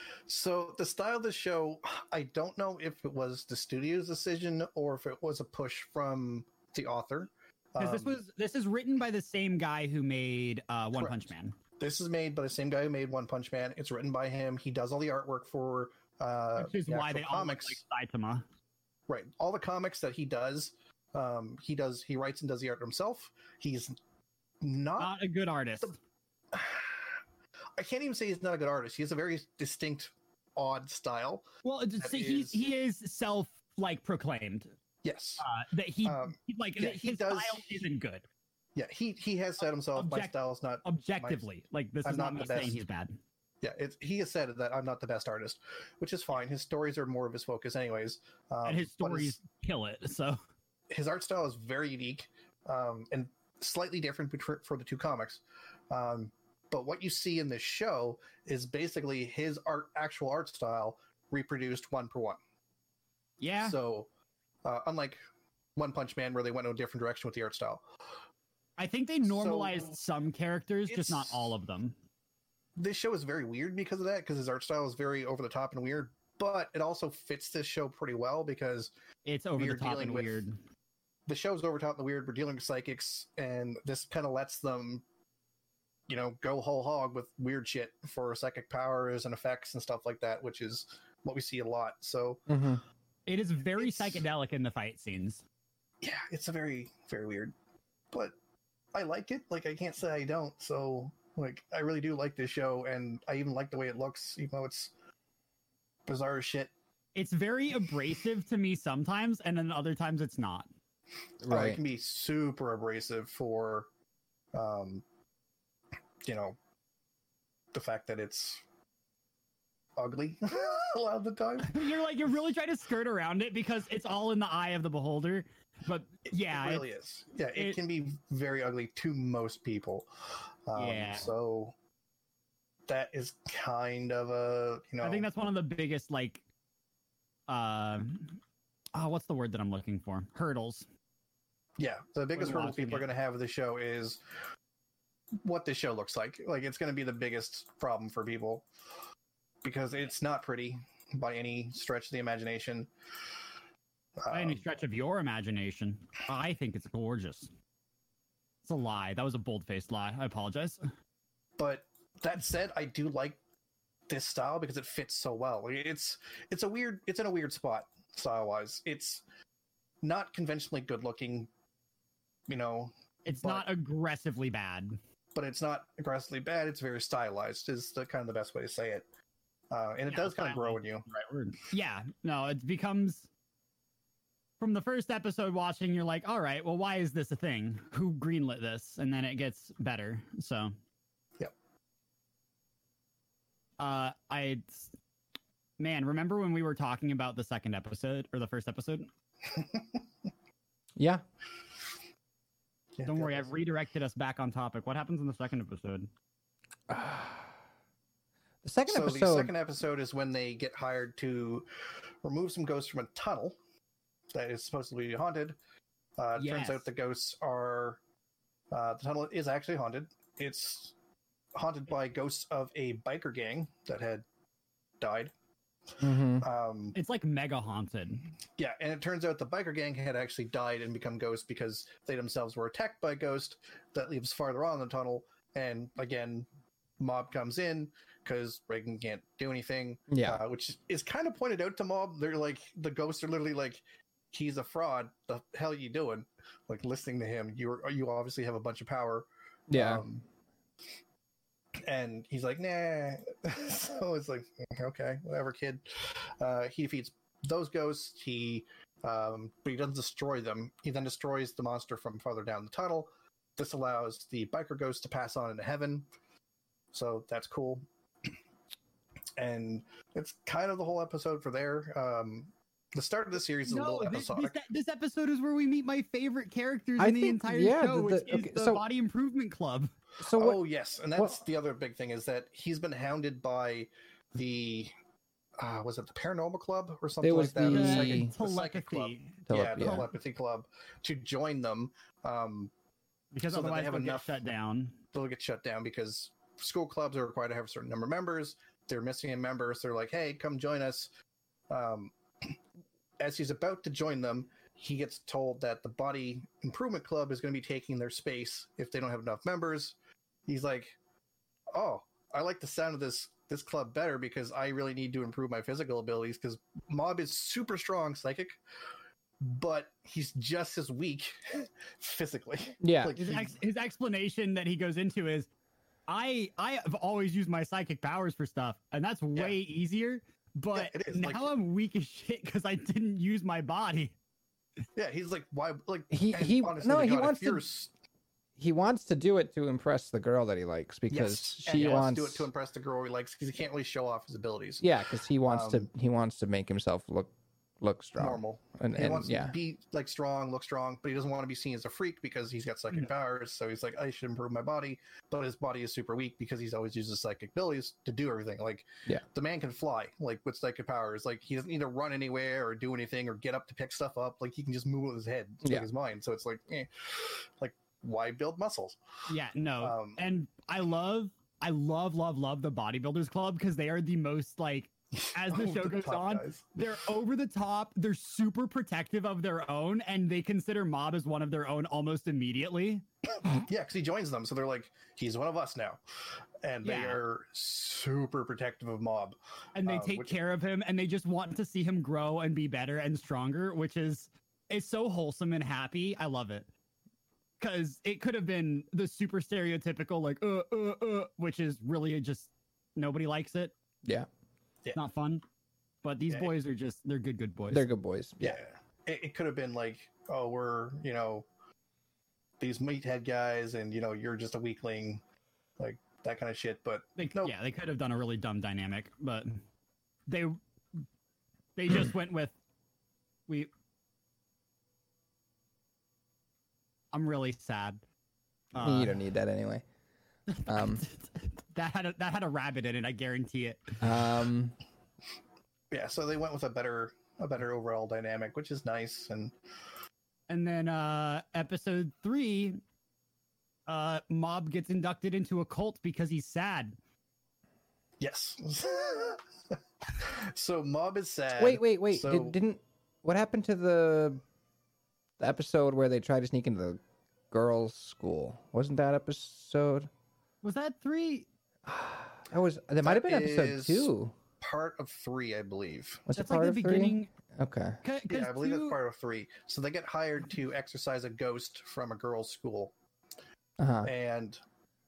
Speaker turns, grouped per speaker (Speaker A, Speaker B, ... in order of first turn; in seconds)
Speaker A: 0.3-8.2, 10.9-17.8, 19.1-24.0, 24.6-25.1, 26.5-27.1, 27.8-31.5, 32.0-32.6, 35.0-35.4, 36.0-37.8, 38.8-41.4, 42.0-42.8, 43.6-49.4, 50.9-62.4, 63.6-64.1, 64.6-65.2, 65.8-67.8, 69.3-69.9, 70.9-71.5, 72.8-78.9, 79.6-80.4, 81.3-85.0, 86.1-92.5, 93.8-94.2, 96.0-97.5, 98.9-104.9, 106.1-106.7, 111.5-113.9, 114.5-115.0, 116.2-116.6, 117.7-118.6, 120.0-121.8, 126.3-131.7, 132.9-135.3, 141.8-144.2, 145.4-148.7, 149.6-152.9, 154.2-154.6, 161.6-163.4, 164.1-169.2, 170.0-171.5, 172.5-173.7, 175.3-179.1, 179.7-181.1, 199.5-200.0, 203.0-203.5, 208.9-211.7, 212.2-213.6, 214.3-215.6, 216.2-218.0, 218.7-220.9, 221.6-224.2, 225.0-225.3, 226.4-227.0, 228.6-236.5, 237.0-250.2, 251.8-266.1, 266.9-267.9, 269.4-274.6, 280.3-284.9, 285.6-292.7, 293.5-294.3, 295.1-301.1, 301.7-302.6, 303.2-310.0, 310.5-311.0, 311.7-318.6, 319.4-323.6, 330.7-331.5, 335.0-337.9, 341.1-344.9, 345.5-345.9, 348.2-369.0, 369.8-370.2, 375.5-376.7, 383.5-386.0, 386.6-390.4, 408.4-411.5, 412.6-415.2, 415.8-417.5, 435.9-439.6, 448.2-449.4, 450.2-452.6, 463.0-466.3, 468.3-472.9, 474.0-474.6
Speaker B: 7.8-11.6, 16.6-18.4, 25.0-26.0, 31.6-34.7, 35.4-38.2, 40.0-43.2, 48.6-50.4, 63.4-63.8, 68.8-72.0, 79.3-80.6, 93.3-95.4, 107.2-110.7, 121.7-126.8, 127.5-127.8, 130.8-131.3, 135.0-136.4, 137.5-138.4, 138.9-140.9, 142.4-143.1, 154.3-157.5, 158.7-160.8, 173.3-175.0, 180.1-183.3, 184.6-190.7, 193.8-194.9, 195.8-199.1, 203.1-206.1, 216.3-216.9, 226.9-228.3, 273.7-279.9, 287.6-290.1, 293.3-295.0, 323.2-325.5, 326.1-334.1, 341.7-342.1, 369.3-383.1, 386.8-387.2, 389.8-396.7, 397.6-403.7, 404.9-405.4, 406.0-407.9, 417.2-419.6, 420.3-421.0, 421.8-422.5, 427.1-428.0, 428.7-429.2, 430.5-434.0, 440.5-442.8, 443.9-447.0, 460.6-461.5, 466.4-467.3, 468.0-469.0
Speaker C: 92.5-92.8, 111.4-111.8, 201.0-201.2, 206.9-207.5, 208.6-209.5, 226.0-226.5, 240.1-240.4, 249.7-250.0, 277.0-278.8, 280.2-280.6, 287.2-288.3, 289.5-290.1, 322.8-323.2, 336.1-337.7, 338.6-342.5, 344.8-349.6, 407.7-408.6, 428.8-429.8, 430.7-431.0, 434.0-434.8, 451.6-454.4, 455.4-457.0, 457.5-460.1, 461.9-464.3, 466.3-468.0, 473.8-474.1